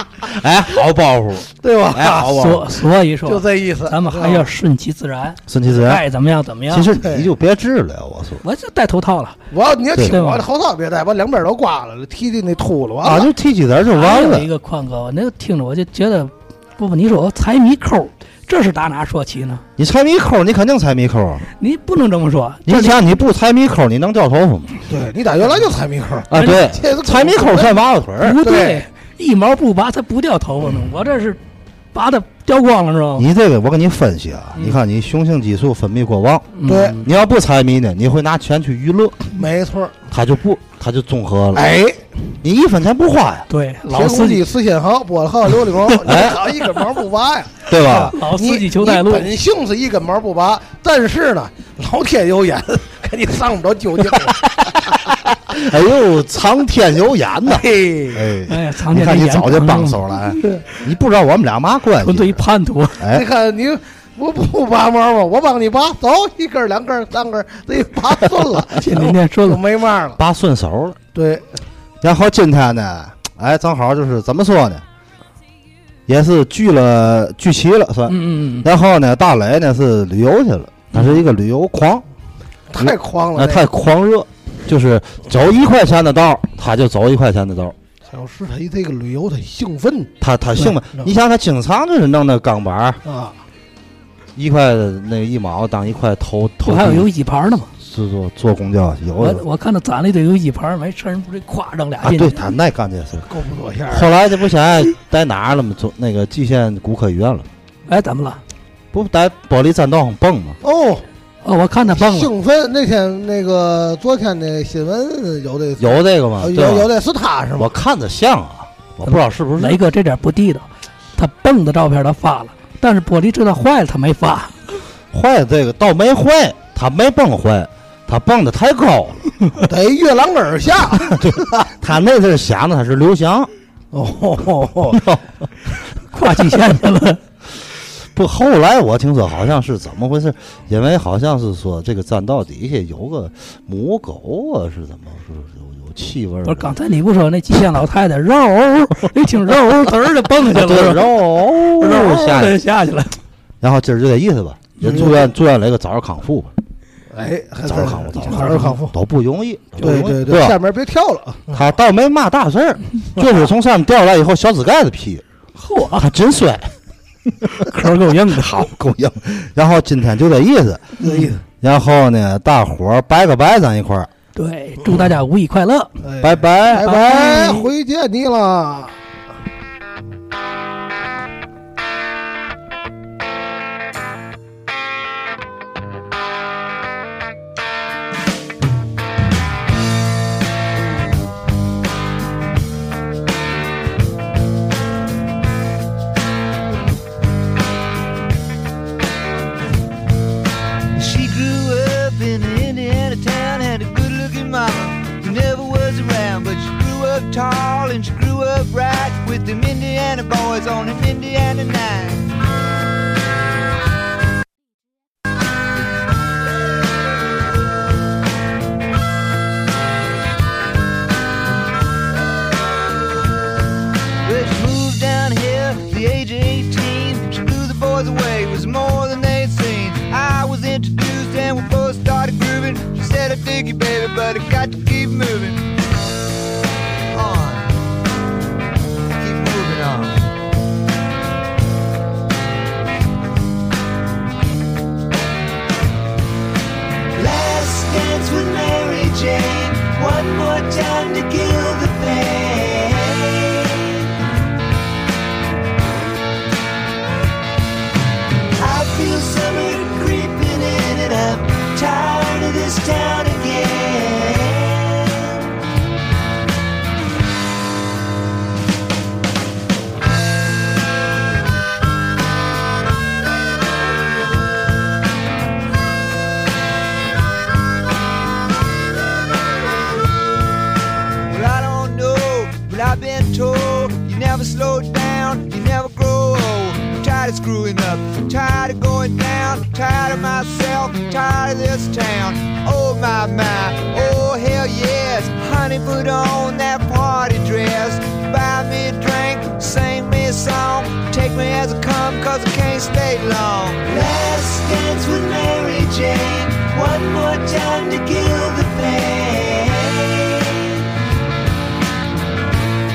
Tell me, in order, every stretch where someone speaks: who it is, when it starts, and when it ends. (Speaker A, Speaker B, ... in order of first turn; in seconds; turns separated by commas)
Speaker A: 0.2-2.7, Speaker B: 1.5-2.6, Speaker C: 2.3-6.9, Speaker B: 3.2-4.5, Speaker A: 5.5-6.0, Speaker A: 6.7-8.4, Speaker B: 7.0-7.3, Speaker C: 8.4-9.4, Speaker B: 9.5-13.3, Speaker C: 10.0-10.5, Speaker A: 13.0-14.5, Speaker C: 13.9-19.6, Speaker A: 19.8-21.4, Speaker C: 21.6-23.0, Speaker A: 22.7-24.7, Speaker B: 24.9-27.8, Speaker A: 26.3-28.4, Speaker C: 28.2-31.4, Speaker B: 28.4-28.9, Speaker C: 31.9-33.3, Speaker A: 33.2-39.2, Speaker C: 34.5-34.8, Speaker C: 36.5-37.1, Speaker B: 36.6-37.0, Speaker B: 39.4-40.0, Speaker A: 40.1-41.8, Speaker B: 41.5-42.1, Speaker A: 42.4-43.5, Speaker C: 43.5-44.4, Speaker B: 43.9-55.0, Speaker A: 46.0-46.4, Speaker A: 47.7-48.2, Speaker C: 47.8-49.3, Speaker A: 55.2-62.4, Speaker B: 57.5-58.3, Speaker C: 58.5-60.4, Speaker C: 62.0-63.1, Speaker A: 63.0-63.2, Speaker B: 63.1-70.2, Speaker C: 68.7-69.6, Speaker A: 70.2-71.0, Speaker B: 71.1-71.6, Speaker A: 72.0-74.8, Speaker A: 76.1-82.0, Speaker C: 78.1-78.7, Speaker C: 80.9-81.2, Speaker B: 82.7-83.7, Speaker A: 82.8-87.8, Speaker B: 88.1-90.1, Speaker A: 90.2-93.0, Speaker B: 93.0-93.4, Speaker A: 94.4-97.1, Speaker C: 96.6-97.7, Speaker A: 97.8-99.4, Speaker C: 99.2-102.4, Speaker A: 102.0-103.3, Speaker B: 103.3-104.1, Speaker A: 103.9-107.5, Speaker C: 107.9-108.4, Speaker A: 108.9-110.6, Speaker B: 110.6-111.0, Speaker C: 111.4-112.3, Speaker B: 111.9-117.7, Speaker A: 115.8-116.9, Speaker A: 117.6-119.8, Speaker C: 119.0-124.8, Speaker A: 125.1-129.3, Speaker B: 129.6-131.7, Speaker A: 130.9-133.5, Speaker B: 133.9-135.1, Speaker A: 134.9-135.3, Speaker C: 136.1-137.2, Speaker A: 138.1-146.8, Speaker C: 146.4-153.2, Speaker A: 150.5-152.6, Speaker A: 153.6-156.5, Speaker C: 154.8-155.1, Speaker B: 154.9-155.2, Speaker B: 157.1-158.9, Speaker A: 157.7-160.6, Speaker B: 159.8-161.6, Speaker A: 161.5-165.2, Speaker C: 165.6-166.1, Speaker A: 166.0-166.7, Speaker C: 167.6-168.7, Speaker A: 168.3-170.9, Speaker B: 171.0-171.4, Speaker C: 171.0-171.3, Speaker A: 171.6-174.1, Speaker C: 174.3-175.9, Speaker B: 176.0-179.0, Speaker A: 176.2-177.3, Speaker C: 176.8-177.7, Speaker D: 200.9-212.3, Speaker D: 224.2-235.8, Speaker D: 237.1-237.8, Speaker D: 239.2-240.3, Speaker D: 247.1-254.1, Speaker D: 258.6-265.5, Speaker D: 281.3-310.9